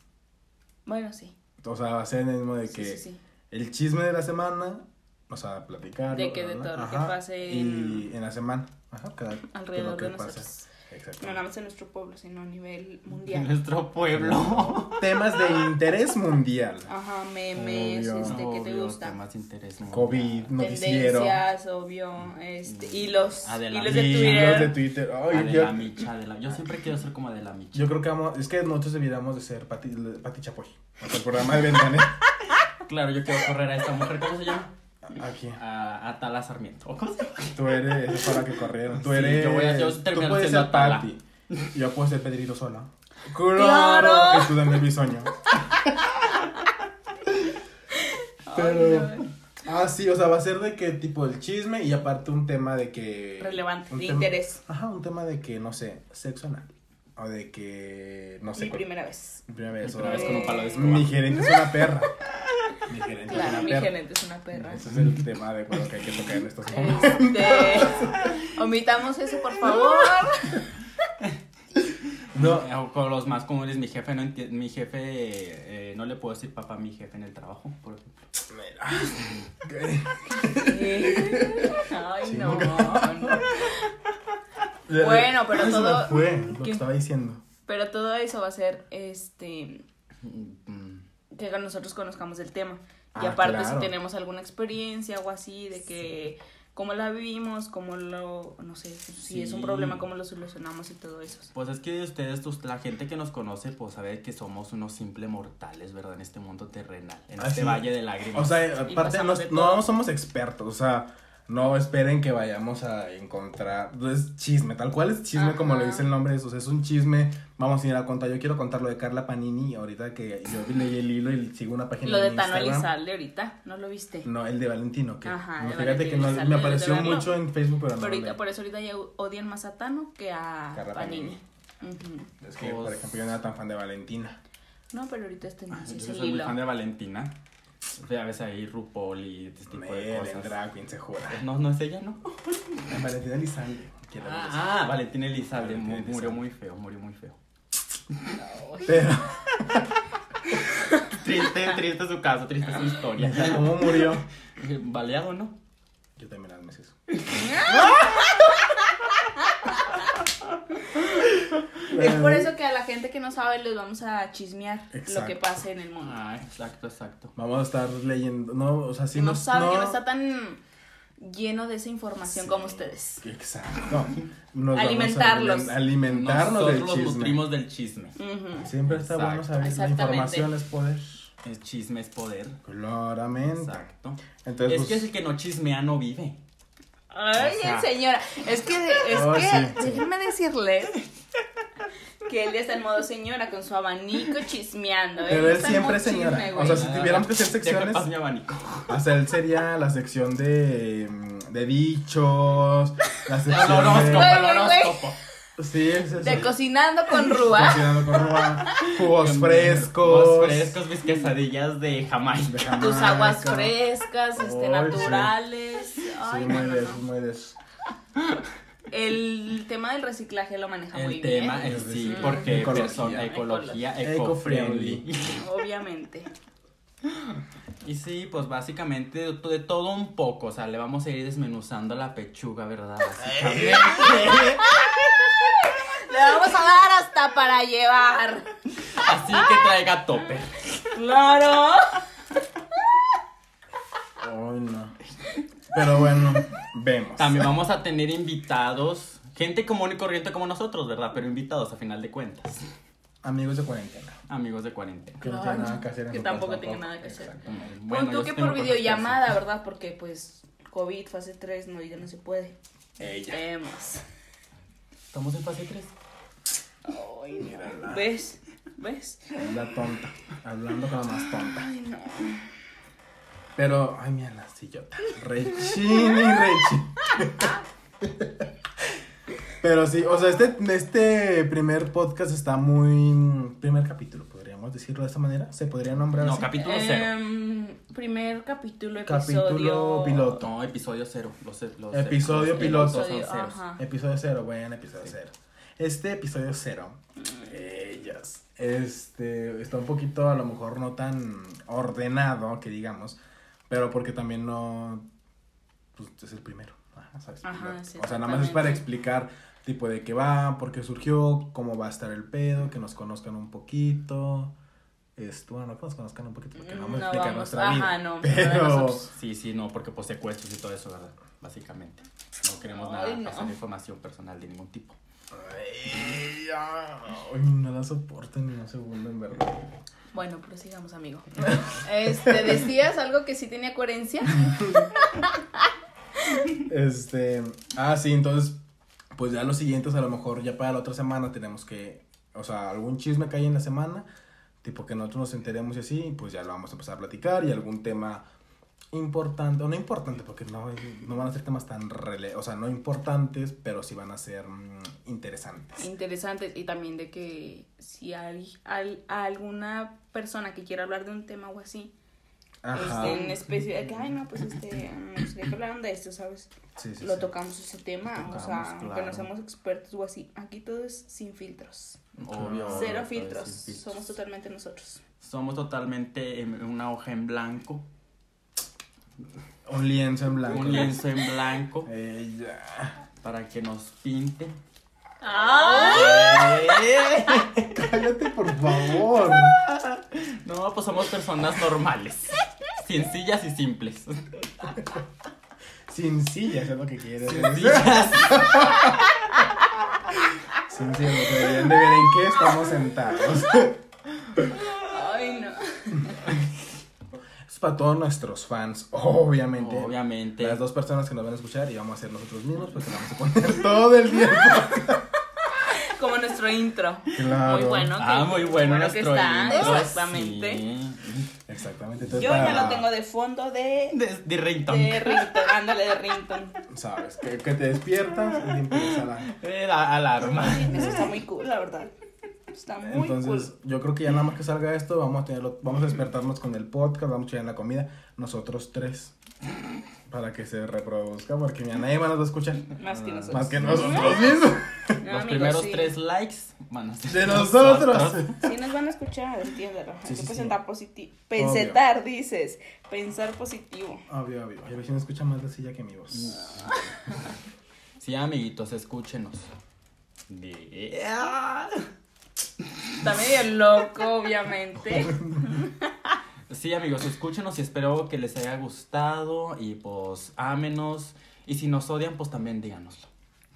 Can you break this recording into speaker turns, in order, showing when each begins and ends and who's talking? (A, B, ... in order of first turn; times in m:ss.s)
0:00.9-0:01.4 A
0:01.6-0:11.4 B
0:02.7-0:03.2 A
0:06.1-0:08.1 A
0:09.5-0:10.7 A
0:11.2-0:13.5 A
0:13.2-0:15.1 C
0:14.1-0:16.9 B
0:16.9-0:19.2 A
0:17.5-0:18.4 B
0:18.2-0:20.5 C
0:19.9-0:21.4 B
0:20.6-0:24.8 A
0:22.6-0:24.8 C
0:23.9-0:26.0 B
0:25.3-0:27.9 C
0:27.7-0:32.2 B
0:32.8-0:34.7 C
0:35.1-0:35.6 B
0:35.6-0:38.0 C
0:37.6-0:41.2 B
0:38.9-0:41.7 C
0:41.7-0:45.3 B
0:43.5-0:44.8 A
0:48.5-0:49.3 A
0:48.5-0:58.9 B
0:53.4-0:54.6 A
0:58.6-0:59.4 A
0:59.5-1:02.1 B
0:59.8-1:01.2 C
1:00.1-1:01.8 A
1:02.9-1:03.9 B
1:03.3-1:04.8 A
1:04.5-1:08.2 B
1:06.7-1:10.7 A
1:12.3-1:18.2 C
1:12.3-1:12.7 B
1:18.5-1:23.5 B
1:20.5-1:23.9 A
1:24.9-1:27.4 B
1:25.0-1:26.8 A
1:27.7-1:29.8 A
1:30.2-1:31.0 C
1:31.4-1:41.5 A
1:33.2-1:33.9 B
1:39.2-1:40.0 C
1:41.5-1:48.6 C
1:47.4-2:02.9 B
1:48.9-1:49.8 A
1:55.3-1:56.0 A
2:02.0-2:04.3 A
2:04.2-2:08.4 B
2:05.2-2:07.3 A
2:08.0-2:12.3 A
2:10.7-2:11.4 B
2:12.4-2:14.4 B
2:12.6-2:13.0 C
2:14.9-2:16.6 A
2:15.7-2:17.3 C
2:18.0-2:20.6 C
2:19.7-2:21.4 B
2:21.3-2:22.4 C
2:22.9-2:24.8 B
2:24.2-2:27.4 C
2:25.5-2:26.4 B
2:28.4-2:29.2 A
2:28.9-2:30.0 B
2:31.1-2:35.6 C
2:33.2-2:34.3 B
2:36.2-2:36.9 B
2:37.2-2:38.3 C
2:37.3-2:38.7 A
2:41.0-2:41.3 C
2:41.9-2:42.5 B
2:41.9-2:46.2 A
2:44.9-2:45.6 B
2:46.0-2:47.3 C
2:47.4-2:50.0 B
2:49.2-2:50.6 A
2:51.2-2:53.2 A
2:52.2-2:57.5 B
2:54.7-2:55.8 A
2:56.0-2:58.2 C
2:58.2-2:58.7 A
2:58.6-3:01.3 B
2:58.8-2:59.7 C
2:59.6-3:00.5 A
3:01.4-3:02.6 C
3:02.6-3:03.9 B
3:03.4-3:06.4 C
3:04.4-3:05.1 B
3:07.1-3:11.1 A
3:07.4-3:07.9 C
3:09.1-3:10.0 B
3:12.2-3:16.9 A
3:15.3-3:18.1 B
3:16.6-3:19.0 C
3:18.9-3:24.4 B
3:23.5-3:25.2 C
3:24.0-3:25.0 A
3:25.6-3:26.5 B
3:26.2-3:28.9 A
3:27.4-3:30.8 B
3:29.0-3:32.7 C
3:32.5-3:33.7 B
3:32.7-3:37.0 A
3:34.4-3:35.3 B
3:36.2-3:37.6 B
3:38.9-3:43.8 A
3:40.9-3:45.4 C
3:41.6-3:43.3 B
3:44.0-3:45.1 B
3:45.4-3:46.3 A
3:47.0-3:55.0 C
3:53.3-3:54.1 B
3:54.0-3:58.5 A
3:58.9-4:00.6 C
4:00.9-4:02.0 A
4:04.2-4:05.0 B
4:05.7-4:07.5 B
4:07.2-4:12.7 C
4:13.2-4:14.2 B
4:14.3-4:15.2 C
4:15.2-4:17.4 B
4:15.2-4:24.0 A
4:17.4-4:19.3 C
4:23.0-4:23.4 B
4:25.1-4:25.9 C
4:26.8-4:29.6 A
4:27.4-4:28.0 B
4:29.4-4:31.7 B
4:31.4-4:32.4 A
4:33.6-4:38.4 B
4:39.6-4:46.5 B
4:46.2-4:47.1 C
4:46.6-4:50.4 A
4:49.1-4:50.5 B
4:50.4-4:53.6 C
4:51.9-4:53.2 B
4:52.4-4:53.8 A
4:53.8-5:03.2 B
5:03.7-5:05.0 B
5:06.0-5:14.5 B
5:07.4-5:08.8 A
5:15.2-5:19.1 B
5:16.6-5:19.1 A
5:19.1-5:25.0 C
5:22.6-5:23.6 A
5:25.3-5:29.6 B
5:30.1-5:35.4 A
5:31.4-5:32.4 B
5:34.4-5:34.9 B
5:36.7-5:38.6 B
5:39.2-5:44.1 B
5:44.6-5:48.2 B
5:48.9-5:55.8 B
5:55.8-6:01.9 A
6:02.6-6:03.6 B
6:02.7-6:12.0 A
6:06.8-6:07.3 B
6:08.2-6:09.3 C
6:12.2-6:14.0 C
6:12.3-6:13.0 B
6:12.6-6:15.0 A
6:15.2-6:17.8 C
6:19.7-6:21.0 B
6:20.5-6:21.9 C
6:21.8-6:23.0 B
6:23.2-6:24.6 C
6:25.2-6:26.6 A
6:25.7-6:27.7 C
6:27.6-6:29.6 B
6:29.5-6:34.8 C
6:35.9-6:38.9 B
6:37.2-6:39.0 C
6:40.7-6:43.8 B
6:44.7-6:46.4 A
6:47.5-6:55.1 B
6:49.6-6:50.6 C
6:55.5-7:00.6 A
6:57.1-6:57.9 B
6:58.0-7:01.3 C
7:01.5-7:02.9 B
7:02.0-7:02.8 C
7:02.2-7:04.0 A
7:03.9-7:05.5 C
7:04.7-7:06.6 A
7:06.7-7:09.3 B
7:08.7-7:11.1 C
7:10.2-7:11.9 A
7:12.5-7:13.5 A
7:12.8-7:19.2 B
7:20.1-7:25.0 B
7:22.8-7:24.2 A
7:23.4-7:24.2 C
7:25.0-7:25.9 A
7:25.1-7:28.4 C
7:27.1-7:28.4 B
7:28.4-7:34.0 A
7:30.0-7:30.6 B
7:31.4-7:31.8 B
7:34.1-7:36.4 B
7:36.1-7:36.8 C
7:38.0-7:39.5 C
7:40.3-7:41.8 C
7:43.0-7:45.9 A
7:44.9-7:45.4 B
7:46.5-7:53.1 C